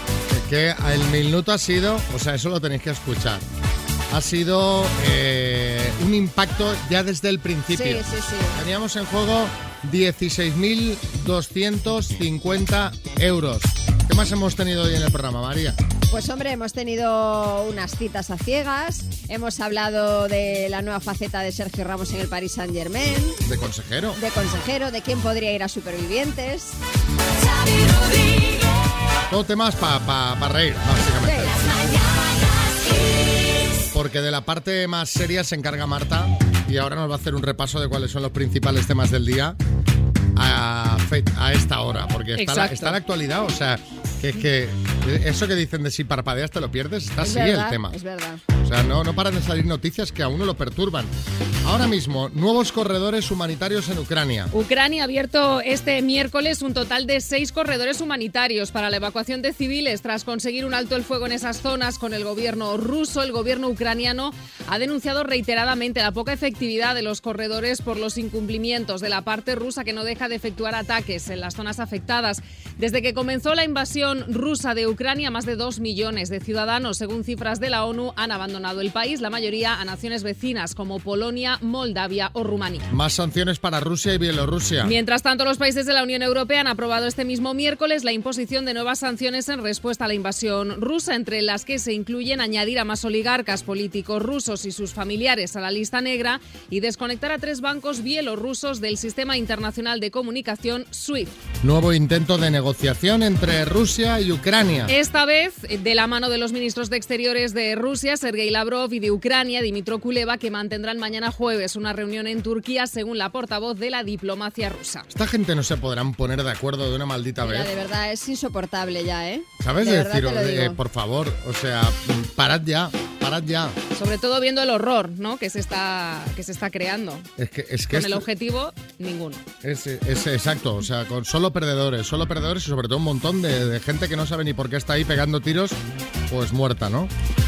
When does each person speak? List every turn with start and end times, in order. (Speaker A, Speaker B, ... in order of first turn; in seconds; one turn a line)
Speaker A: 0.3-3.5
Speaker A: 4.1-15.8
Speaker B: 7.7-8.6
Speaker B: 16.1-23.4
Speaker A: 23.4-24.2
Speaker B: 24.2-26.8
Speaker A: 29.3-31.6
Speaker B: 31.2-31.6
Speaker A: 33.9-39.6
Speaker A: 40.3-48.0
Speaker C: 42.4-43.0
Speaker B: 47.2-48.4
Speaker A: 48.6-51.1
Speaker A: 51.6-54.5
Speaker C: 54.5-82.9
Speaker A: 82.9-84.9
Speaker C: 84.8-101.3
Speaker A: 101.6-104.9
Speaker C: 104.9-115.0
Speaker A: 115.1-117.7
Speaker B: 117.4-120.8
Speaker A: 119.6-123.8
Speaker C: 123.9-127.3
Speaker A: 127.4-128.2
Speaker C: 127.9-129.4
Speaker A: 129.6-137.1